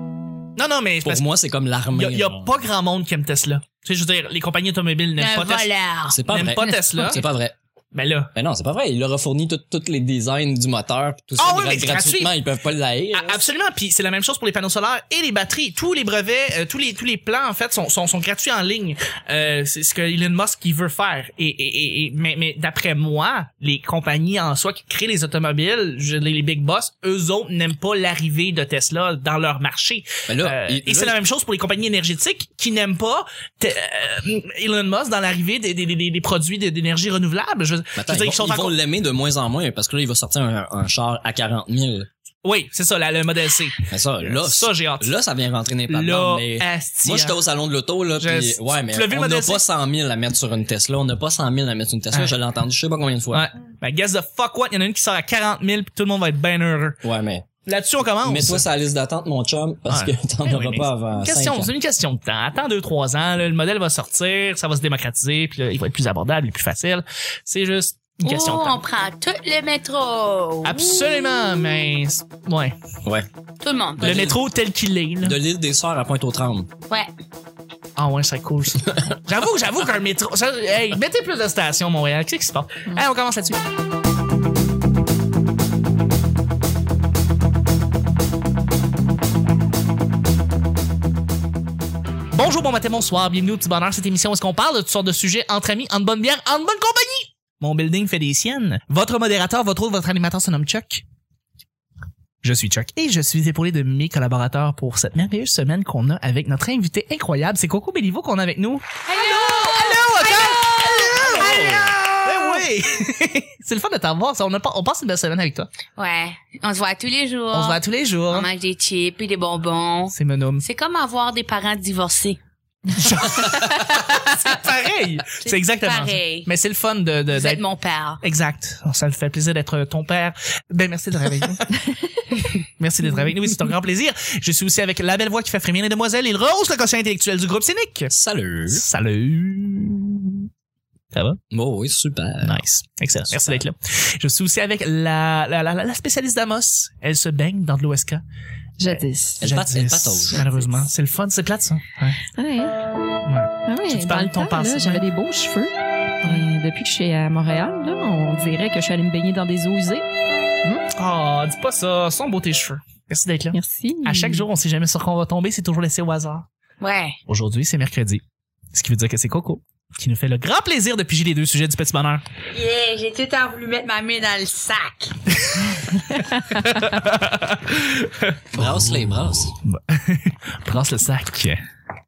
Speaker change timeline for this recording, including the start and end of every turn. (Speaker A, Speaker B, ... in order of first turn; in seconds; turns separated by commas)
Speaker A: 0.6-1.2, Speaker B: 1.0-2.6, Speaker A: 1.9-5.7, Speaker C: 5.2-7.1, Speaker B: 6.1-7.5, Speaker A: 6.3-7.2, Speaker A: 7.9-8.3, Speaker B: 8.3-13.4, Speaker A: 11.4-12.3, Speaker A: 13.1-38.7, Speaker B: 30.3-31.1, Speaker B: 38.0-42.1, Speaker A: 42.4-45.1, Speaker B: 43.9-53.5, Speaker A: 45.9-47.4, Speaker A: 48.2-49.6, Speaker A: 53.3-57.0, Speaker B: 57.0-57.5, Speaker A: 57.6-58.6, Speaker B: 58.2-61.7, Speaker A: 59.9-68.8, Speaker C: 68.2-71.1, Speaker A: 70.6-72.7, Speaker C: 73.6-74.3, Speaker B: 74.0-74.4, Speaker A: 74.0-75.4, Speaker B: 75.2-76.7, Speaker A: 78.0-83.6, Speaker A: 92.3-101.0, Speaker A: 102.4-115.7, Speaker C: 109.1-111.8, Speaker B: 111.2-112.0, Speaker C: 116.0-117.8, Speaker A: 117.5-118.5, Speaker C: 118.3-122.4, Speaker A: 120.1-120.6, Speaker A: 122.9-127.6, Speaker C: 123.5-124.6, Speaker C: 125.4-126.5, Speaker C: 127.3-128.2, Speaker A: 128.2-131.6, Speaker A: 132.6-138.1, Speaker B: 138.1-138.8, Speaker A: 138.7-140.5, Speaker A: 141.1-141.4, Speaker B: 141.5-142.6, Speaker A: 142.4-148.2, Speaker D: 148.8-149.4, Speaker A: 148.8-152.2, Speaker B: 149.4-150.7, Speaker D: 152.3-152.8, Speaker A: 153.2-155.0, Speaker D: 153.7-160.0, Speaker A: 160.9-166.4, Speaker D: 163.5-164.4, Speaker C: 166.8-167.2, Speaker A: 167.3-168.2, Speaker A: 168.7-172.2, Speaker C: 172.5-175.2, Speaker A: 175.4-179.1, Speaker B: 178.5-179.6, Speaker A: 179.6-181.6